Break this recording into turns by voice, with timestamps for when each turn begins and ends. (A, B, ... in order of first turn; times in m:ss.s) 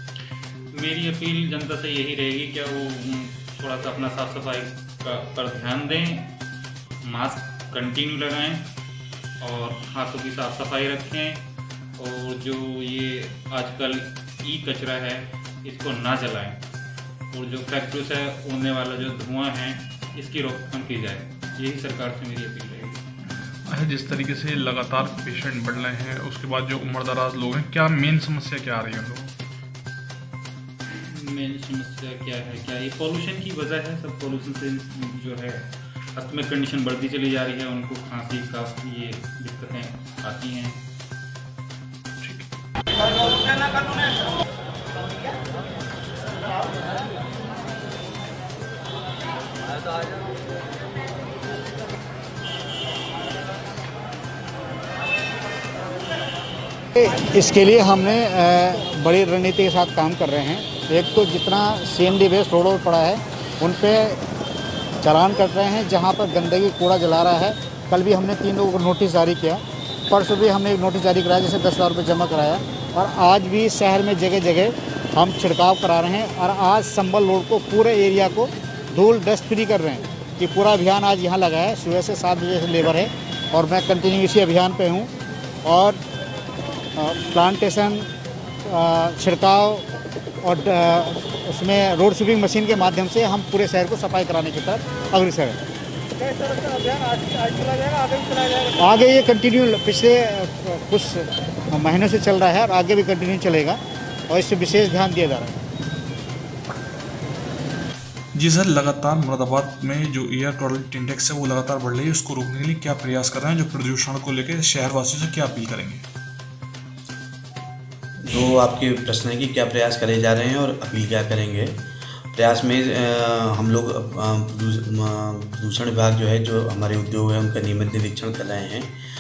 0:00.7-0:06.3 A
0:07.0-0:08.7 A
0:09.4-0:11.4 A
0:12.0-0:16.6 A
0:17.3-0:23.0 A
0:23.7-0:29.3 B
0:30.9-0:40.8 A
0:42.2-0:42.5 B
0:57.0-1:04.2 C
1:05.0-1:25.1 C
1:25.6-1:26.0 C
1:27.0-1:28.1 C
1:28.7-1:29.8 C
1:30.4-1:35.6 C
1:38.8-1:45.5 C
1:48.3-1:56.0 B
1:58.2-2:01.8 D
2:02.3-2:08.9 D